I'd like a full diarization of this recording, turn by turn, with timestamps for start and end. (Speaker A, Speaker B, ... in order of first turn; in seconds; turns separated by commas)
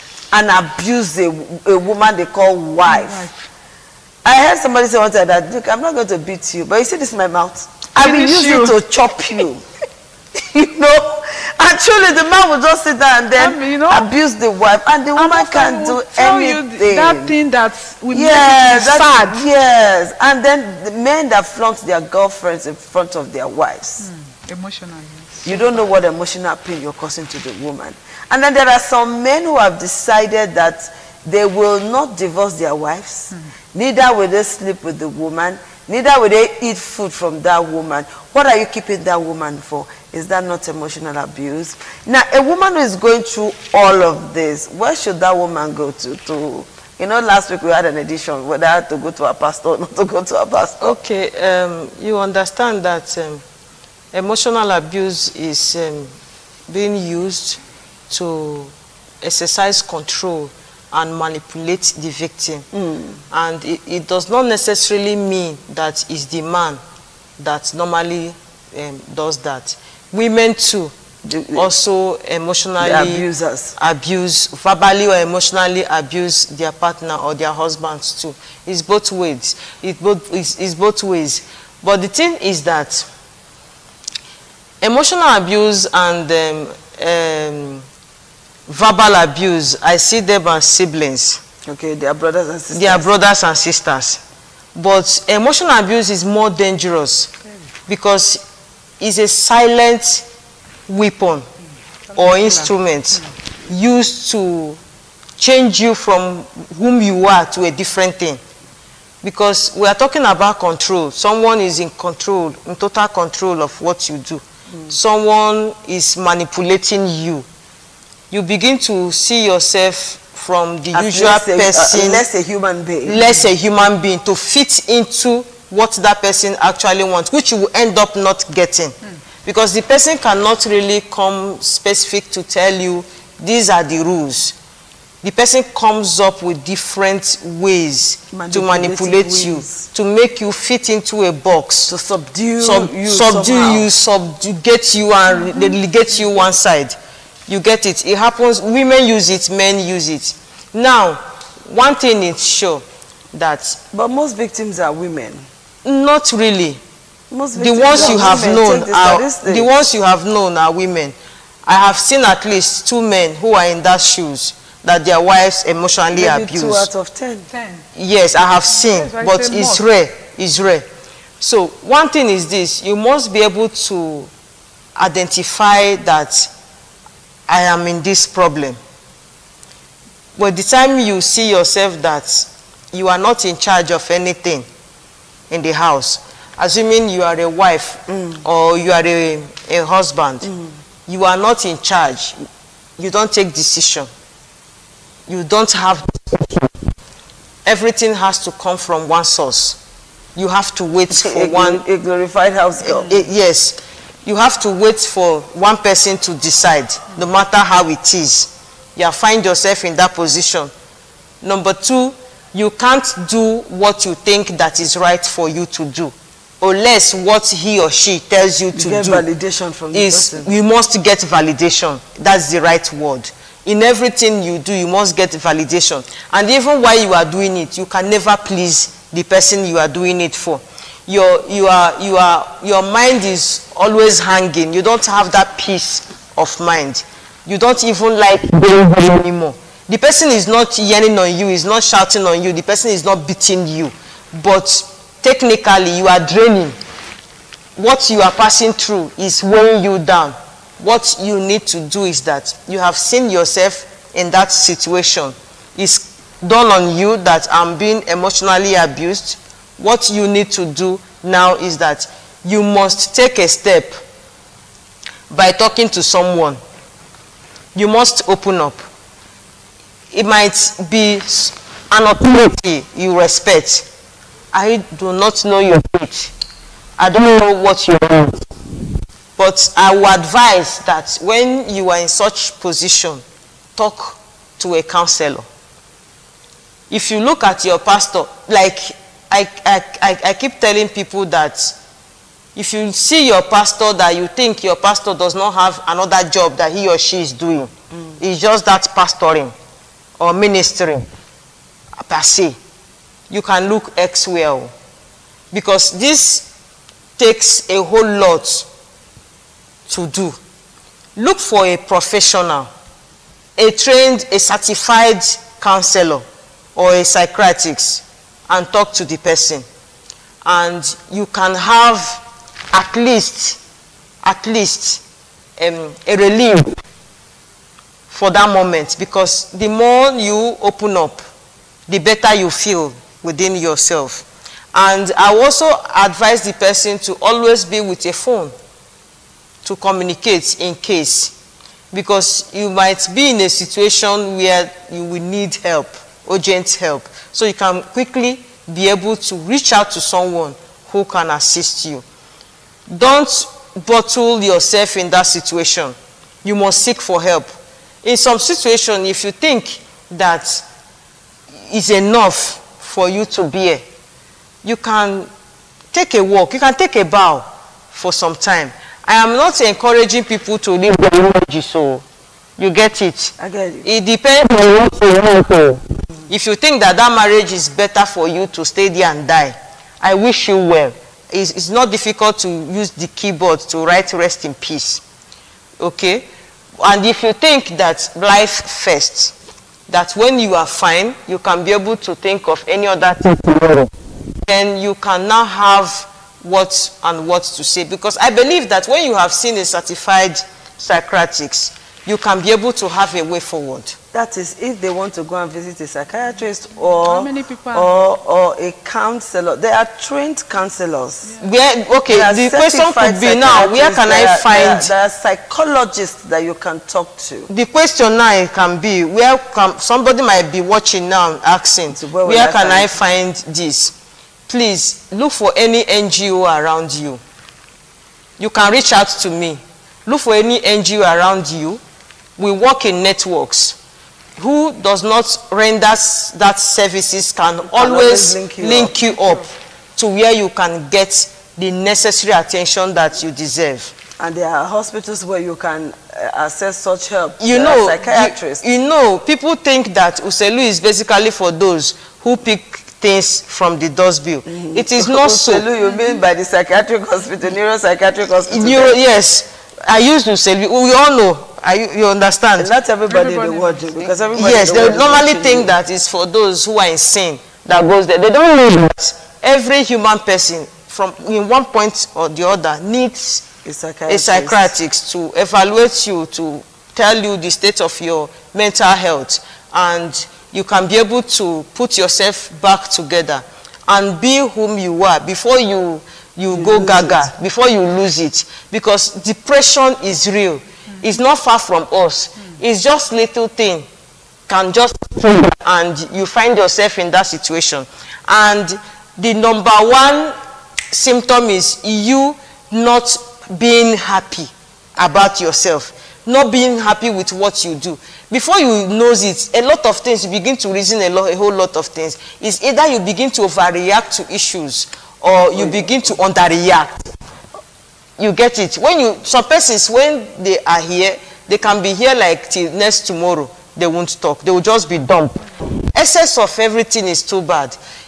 Speaker A: 0.3-3.3, Speaker B: 2.8-3.5, Speaker A: 4.2-9.6, Speaker B: 7.9-8.8, Speaker A: 10.4-17.3, Speaker B: 13.4-14.1, Speaker B: 15.2-19.4, Speaker A: 18.1-24.0, Speaker B: 24.0-25.8, Speaker A: 25.4-51.0, Speaker C: 50.8-53.4, Speaker C: 54.1-56.1, Speaker C: 56.7-57.6, Speaker C: 58.1-62.6, Speaker A: 62.7-63.2, Speaker C: 63.3-66.8, Speaker C: 67.4-70.9, Speaker A: 71.2-71.7, Speaker C: 71.5-73.2, Speaker A: 72.8-73.8, Speaker C: 73.8-83.1, Speaker C: 84.8-87.8, Speaker C: 88.7-91.4, Speaker A: 91.7-93.1, Speaker C: 92.7-94.2, Speaker C: 94.7-97.3, Speaker C: 97.9-98.4, Speaker C: 99.0-100.2, Speaker C: 100.9-101.5, Speaker B: 102.1-102.7, Speaker C: 102.2-104.8, Speaker C: 105.4-108.4, Speaker C: 109.2-117.5, Speaker C: 118.3-122.2, Speaker A: 120.9-123.2, Speaker C: 123.0-134.6, Speaker C: 135.2-141.9, Speaker A: 138.3-139.9, Speaker A: 141.9-143.9, Speaker C: 142.6-153.8, Speaker A: 153.9-155.4, Speaker C: 155.8-156.8, Speaker A: 157.3-159.7, Speaker C: 157.5-166.9, Speaker A: 166.1-167.5, Speaker B: 167.5-167.8, Speaker C: 167.9-170.8, Speaker B: 168.7-169.8, Speaker C: 171.4-174.3, Speaker C: 174.9-176.5, Speaker C: 177.5-178.8, Speaker C: 180.4-184.7, Speaker C: 185.5-190.5, Speaker A: 188.1-188.4, Speaker A: 190.4-190.7, Speaker C: 191.1-192.3, Speaker C: 193.0-194.1, Speaker C: 195.3-196.7, Speaker C: 197.6-199.8, Speaker C: 200.3-201.8, Speaker A: 201.1-203.3, Speaker C: 202.8-210.7, Speaker C: 211.4-219.2, Speaker A: 218.7-220.5, Speaker C: 219.9-246.7, Speaker C: 247.8-264.0, Speaker C: 265.3-266.6, Speaker C: 267.7-268.8, Speaker C: 270.1-273.9, Speaker C: 274.5-276.3, Speaker C: 277.0-278.4, Speaker C: 279.4-283.2, Speaker C: 283.8-285.5, Speaker C: 286.9-291.8, Speaker C: 292.5-299.5, Speaker C: 300.2-301.1, Speaker C: 302.0-302.6, Speaker C: 303.3-304.7, Speaker C: 305.5-306.5, Speaker C: 307.2-308.7, Speaker C: 309.9-310.4, Speaker C: 311.1-312.7, Speaker C: 313.6-319.6, Speaker C: 320.4-323.6, Speaker C: 324.2-325.0, Speaker C: 325.6-326.8, Speaker C: 328.1-331.2, Speaker C: 331.9-338.5, Speaker C: 339.6-341.3, Speaker C: 341.9-352.0, Speaker C: 352.9-357.5, Speaker C: 358.0-360.6, Speaker C: 361.7-363.8, Speaker C: 364.6-365.3, Speaker C: 365.9-372.0, Speaker C: 372.6-373.3, Speaker A: 373.4-373.9, Speaker C: 373.8-385.0, Speaker C: 385.8-386.3, Speaker C: 386.8-389.3, Speaker C: 389.9-393.9, Speaker C: 394.4-404.0, Speaker A: 404.1-411.3, Speaker B: 407.0-407.9, Speaker C: 411.4-414.9, Speaker A: 412.1-417.5, Speaker C: 417.5-423.9, Speaker A: 421.9-423.0, Speaker C: 424.5-427.2, Speaker C: 428.4-431.8, Speaker C: 432.4-433.8, Speaker C: 434.4-443.9, Speaker A: 437.7-438.9, Speaker B: 439.1-439.4, Speaker A: 444.2-448.6, Speaker C: 447.4-455.6, Speaker A: 454.4-458.9, Speaker B: 455.8-456.1, Speaker C: 458.4-462.7, Speaker A: 462.6-465.7, Speaker B: 463.1-464.3, Speaker C: 464.4-473.4, Speaker A: 473.6-474.7, Speaker C: 474.1-493.9, Speaker A: 486.5-487.3, Speaker C: 494.5-500.3, Speaker C: 500.9-517.1, Speaker A: 515.5-516.0, Speaker C: 518.2-527.8